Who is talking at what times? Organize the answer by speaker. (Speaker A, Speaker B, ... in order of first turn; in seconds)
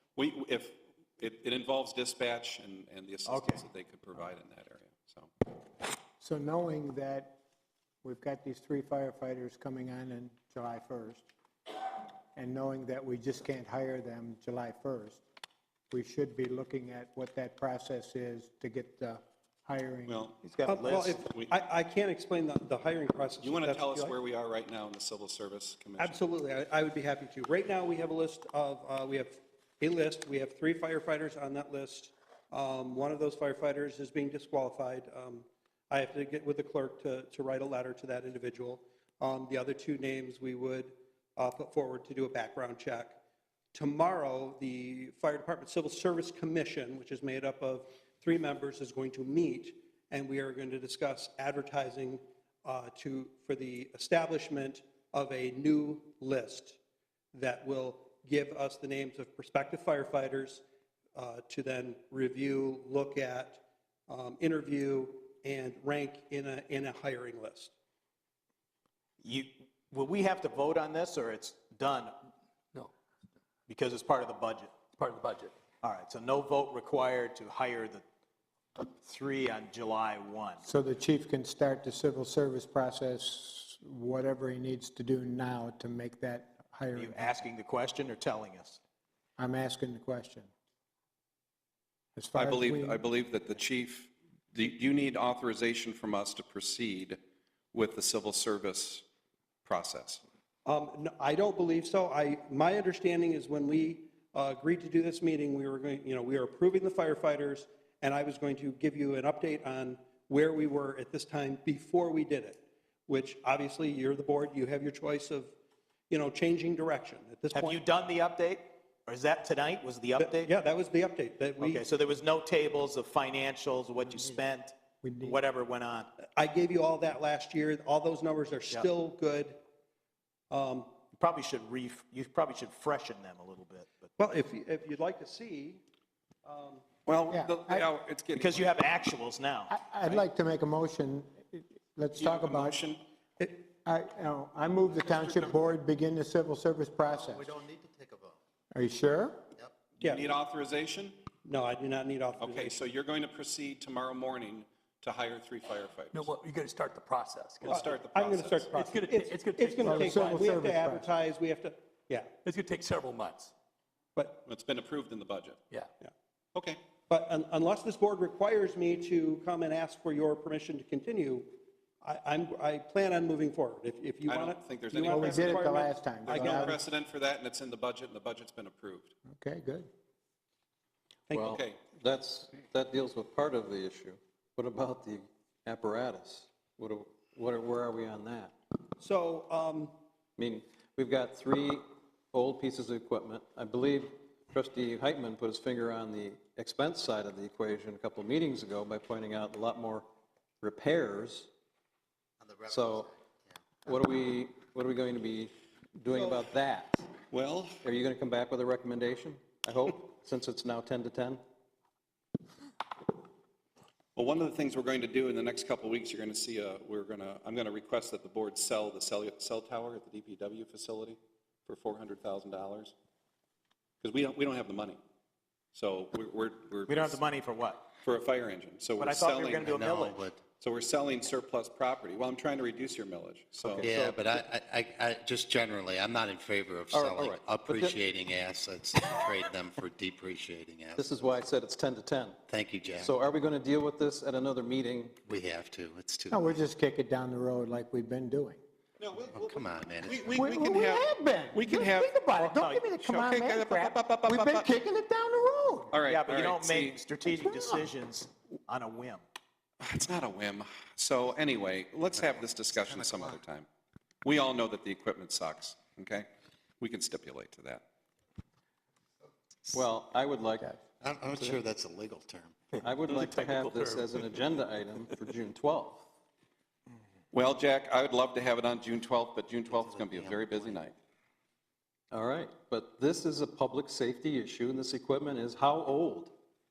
Speaker A: 0.2-5.3, 20.1-21.6, 23.4-26.3, 92.4-97.2, 97.7-99.0, 99.7-100.2, 137.1-138.7, 142.2-143.0, 150.0-151.2, 152.4-156.3, 157.6-158.7, 164.5-165.6, 174.2-179.1, 207.3-207.8, 214.2-222.9, 224.0-225.0, 225.7-227.2, 228.0-229.8, 230.6-233.9, 249.0-252.2, 253.0-254.7, 255.9-257.0, 259.8-263.7, 264.2-266.3, 266.8-267.8, 277.3-280.9
Speaker B: 3.3-3.6, 20.4-21.3, 69.2-72.1, 73.7-74.7, 75.8-78.0, 78.8-80.7, 87.0-88.8, 117.5-120.5, 121.6-126.1, 131.2-134.1, 138.4-139.7, 226.9-227.8, 229.0-230.2, 252.4-252.9, 256.1-259.2
Speaker C: 6.2-7.3, 8.0-11.3, 12.3-15.2, 15.9-20.3, 80.6-87.5, 89.4-90.5, 92.2-93.0, 125.0-125.4, 137.3-137.9, 139.7-142.8, 143.8-147.6, 148.7-149.4, 159.8-161.1, 175.0-176.8, 179.3-179.9, 246.3-248.6, 250.3-255.9, 257.3-257.9
Speaker D: 20.7-24.1, 26.0-43.1, 43.7-56.8, 57.3-60.6, 61.2-67.7, 100.7-115.5, 116.1-117.8, 120.2-121.8, 126.4-129.6, 130.5-130.9, 134.2-135.8, 136.4-136.8, 151.4-152.8, 157.7-162.3, 167.1-171.5, 172.0-176.7, 181.3-181.6, 189.0-189.9
Speaker E: 75.0-75.5, 156.1-157.8, 158.6-160.3, 162.4-163.5, 273.1-274.0
Speaker F: 147.1-148.4, 202.4-203.1, 229.7-230.4, 233.8-241.4, 242.5-243.2, 245.2-246.5, 249.3-250.3, 262.3-263.4, 271.0-272.6, 279.7-280.8
Speaker G: 181.3-188.5, 190.4-200.1, 200.6-201.5, 202.7-203.1, 203.8-207.1, 207.8-211.4, 233.6-234.2, 236.9-238.0, 241.0-242.4, 243.0-245.2, 269.7-270.8, 272.8-276.1, 282.1-286.3